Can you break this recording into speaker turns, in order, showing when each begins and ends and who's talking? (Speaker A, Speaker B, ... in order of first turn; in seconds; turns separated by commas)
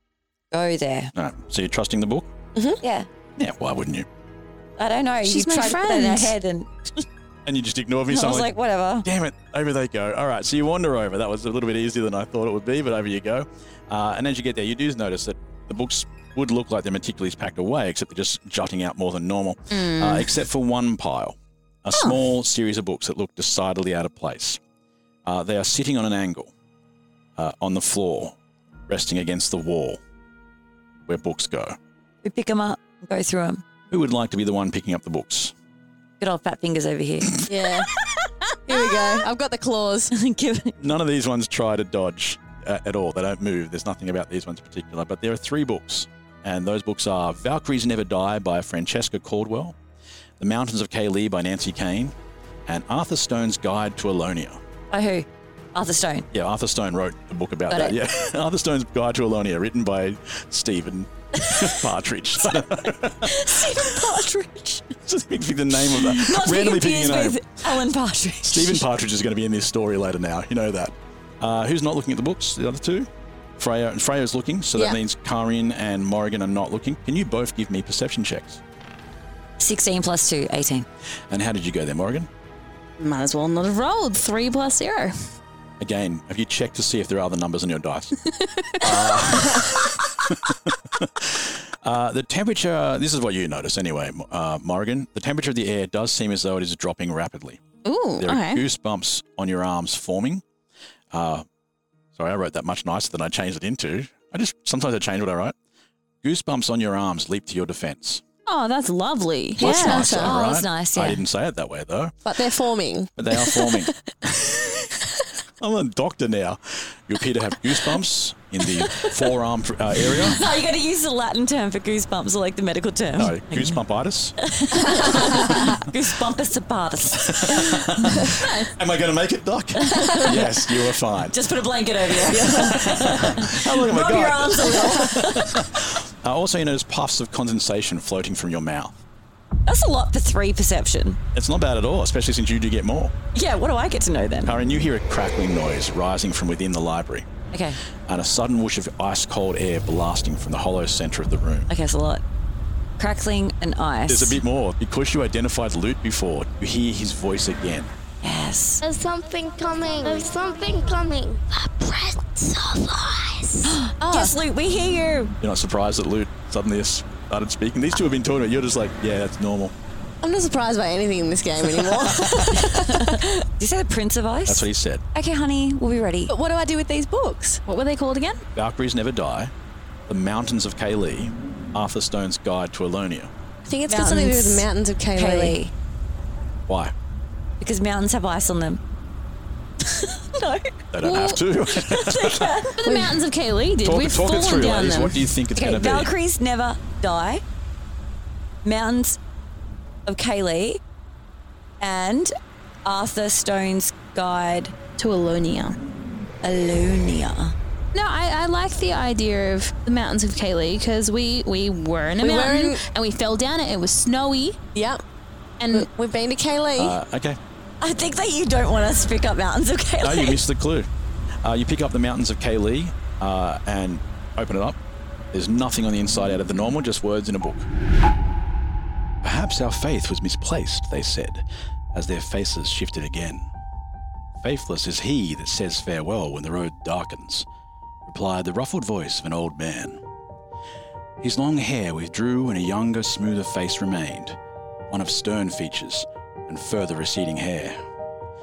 Speaker A: 0.5-1.1, Speaker B: 1.1-2.3, Speaker A: 2.8-3.1, Speaker B: 3.4-4.1, Speaker A: 4.8-7.1, Speaker C: 5.2-6.3, Speaker B: 7.5-8.5, Speaker A: 8.1-9.1, Speaker B: 9.0-24.6, Speaker C: 19.7-20.3, Speaker B: 25.2-26.5, Speaker B: 27.4-28.4, Speaker B: 28.9-30.0, Speaker B: 31.1-31.8, Speaker A: 32.2-33.6, Speaker B: 33.9-35.5, Speaker A: 36.2-37.5, Speaker D: 37.5-37.9, Speaker D: 38.7-40.1, Speaker A: 40.1-40.7, Speaker B: 40.8-49.8, Speaker B: 50.4-52.1, Speaker B: 52.7-54.6, Speaker A: 54.9-56.3, Speaker B: 56.3-63.9, Speaker A: 57.7-58.0, Speaker A: 63.2-64.9, Speaker B: 65.1-67.6, Speaker A: 65.8-68.9, Speaker B: 68.5-78.6, Speaker A: 79.6-80.9, Speaker B: 81.3-82.3, Speaker C: 83.0-85.2, Speaker B: 85.8-88.1, Speaker C: 88.3-88.9, Speaker B: 88.8-97.6, Speaker C: 97.8-98.6, Speaker B: 98.2-100.4, Speaker B: 101.1-101.5, Speaker B: 102.2-105.5, Speaker B: 106.2-108.2, Speaker C: 108.5-109.9, Speaker D: 109.6-110.4, Speaker B: 109.6-112.2, Speaker A: 109.6-111.2, Speaker D: 112.3-113.9, Speaker B: 113.2-115.0, Speaker B: 115.6-120.4, Speaker A: 120.3-123.8, Speaker B: 123.2-124.4, Speaker A: 124.4-127.7, Speaker B: 125.3-125.7, Speaker B: 127.3-131.4, Speaker C: 128.4-128.7, Speaker A: 129.8-130.4, Speaker D: 129.9-130.5, Speaker A: 131.2-135.6, Speaker B: 132.3-139.0, Speaker A: 139.7-141.2, Speaker B: 141.3-143.1, Speaker A: 143.3-144.6, Speaker B: 144.5-147.3, Speaker A: 147.5-147.8, Speaker B: 148.1-151.7, Speaker A: 151.7-152.2, Speaker A: 153.0-154.4, Speaker B: 154.1-157.9, Speaker A: 158.2-158.8, Speaker E: 158.8-163.6, Speaker A: 163.7-165.3, Speaker D: 164.0-164.3, Speaker B: 165.4-169.7, Speaker D: 170.2-173.4, Speaker A: 172.7-176.3, Speaker B: 174.5-175.0, Speaker D: 176.3-177.6, Speaker C: 177.7-178.4, Speaker B: 178.6-179.5, Speaker B: 180.1-183.3, Speaker D: 183.7-185.6, Speaker A: 183.9-185.7, Speaker B: 186.7-186.9, Speaker A: 187.6-188.8, Speaker A: 189.8-190.7, Speaker B: 190.9-192.5, Speaker C: 191.0-191.4, Speaker A: 191.7-192.8, Speaker C: 192.8-195.3, Speaker D: 192.8-193.2, Speaker B: 193.8-196.1, Speaker A: 195.6-197.4, Speaker A: 198.6-199.2, Speaker A: 200.1-200.8, Speaker A: 201.8-202.3, Speaker A: 202.8-204.8, Speaker C: 205.0-205.8, Speaker A: 206.4-207.5, Speaker C: 207.9-214.6, Speaker D: 212.2-212.8, Speaker D: 214.8-215.0, Speaker C: 215.6-215.9, Speaker D: 215.7-217.0, Speaker B: 216.8-217.4, Speaker A: 217.8-220.4, Speaker B: 220.0-220.9, Speaker B: 221.4-224.8, Speaker B: 225.3-227.7, Speaker B: 229.2-233.5, Speaker B: 234.4-237.5, Speaker B: 238.1-240.0, Speaker B: 241.2-244.4, Speaker B: 244.9-247.8